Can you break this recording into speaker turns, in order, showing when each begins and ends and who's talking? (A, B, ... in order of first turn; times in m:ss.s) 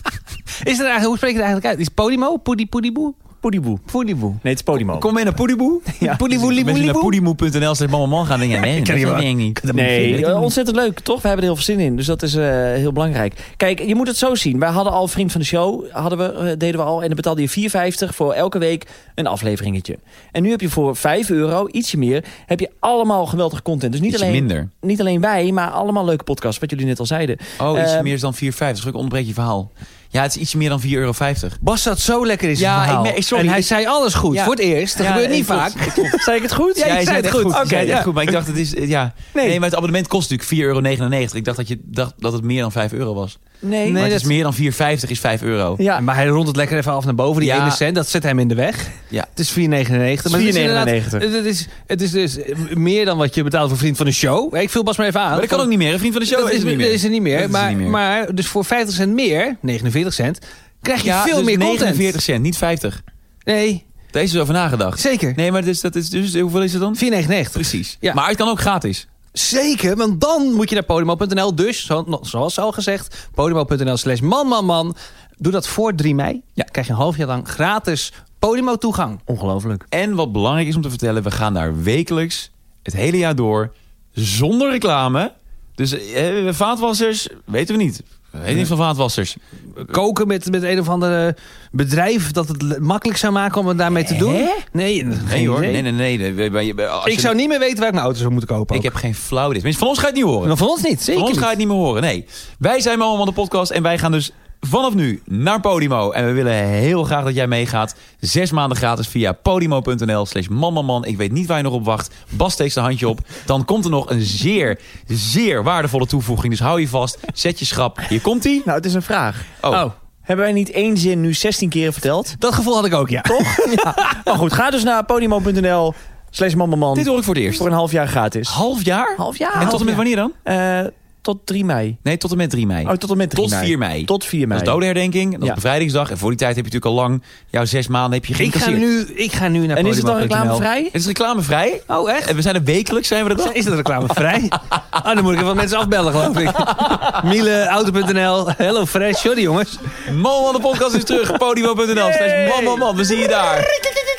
0:00.6-0:03.2 A
0:03.4-0:03.8 B
0:03.9-0:04.4 A
0:04.4-0:05.1 B
0:04.9-0:10.2 C
0:06.0-0:07.2 A
0:06.0-0:06.4 B
0:08.6-0:10.5 A
0:09.7-0:28.1 B
0:24.1-0:24.7 C
0:27.6-0:31.6 C
0:31.6-0:36.3 A
0:32.5-0:33.7 C
0:34.3-0:36.2 C
0:36.0-0:38.1 B
0:36.8-0:43.4 C
0:36.8-0:38.4 A
0:43.6-0:44.0 B
0:43.8-0:44.3 A
0:43.9-0:45.8 C
0:45.8-0:46.0 B
0:45.9-0:55.7 A
0:47.4-0:47.8 C
0:50.2-0:51.2 B
0:55.3-0:58.0 C
0:56.2-1:02.2 A
1:01.0-1:03.0 C
1:03.4-1:03.8 A
1:04.1-1:09.0 C
1:05.0-1:05.4 A
1:06.9-1:08.2 A
1:09.3-1:19.2 A
1:19.3-1:19.8 B
1:19.9-1:29.4 C
1:29.8-1:35.8 A
1:34.0-1:34.6 C
1:35.2-1:37.4 C
1:37.0-1:38.9 A
1:38.7-1:40.5 C
1:40.4-1:41.6 A
1:41.1-1:58.7 C
1:58.6-1:59.5 B
1:59.6-1:59.9 C
2:00.2-2:02.4 B
2:02.4-2:04.2 A
2:03.2-2:08.6 B
2:06.9-2:07.7 C
2:08.5-2:10.4 C
2:09.2-2:12.0 B
2:09.6-2:09.9 A
2:12.0-2:18.8 C
2:12.8-2:14.8 B
2:18.4-2:20.7 A
2:19.7-2:20.9 B
2:20.9-2:23.6 C
2:21.9-2:22.3 A
2:23.4-2:30.0 A
2:26.7-2:27.0 C
2:30.0-2:33.7 C
2:32.3-2:32.9 B